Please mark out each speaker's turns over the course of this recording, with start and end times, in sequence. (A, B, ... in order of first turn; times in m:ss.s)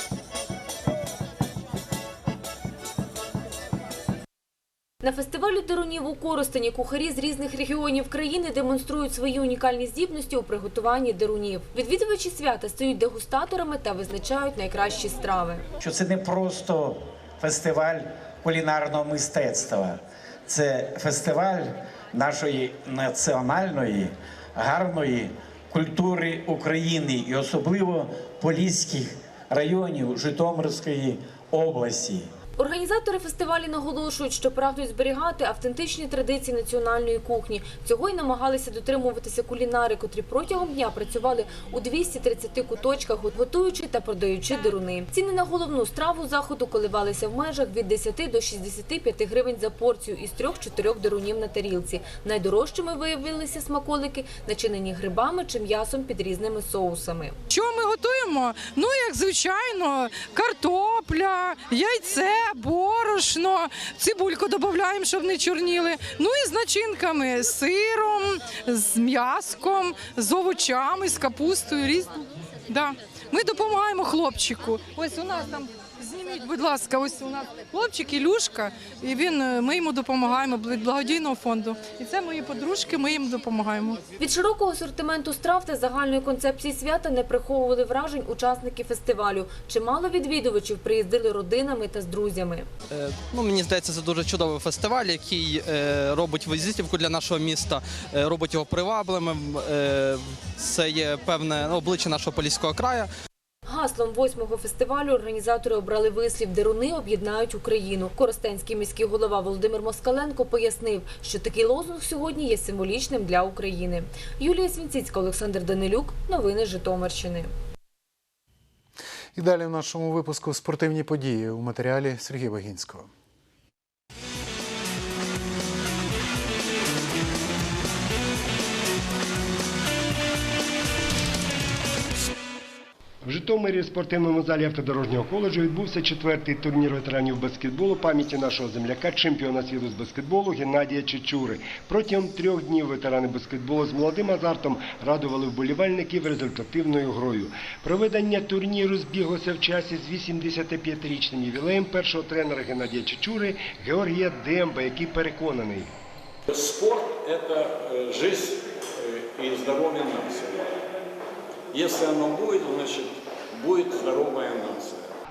0:05.0-0:15.6 A
0:15.8-0:32.2 B
0:32.6-0:57.4 A
0:57.5-1:24.0 C
1:24.2-1:32.7 A
1:32.9-1:43.1 D
1:43.7-1:57.5 A
1:59.4-2:03.1 E
2:13.2-2:35.9 F
2:36.5-2:40.6 G
2:41.7-2:45.1 G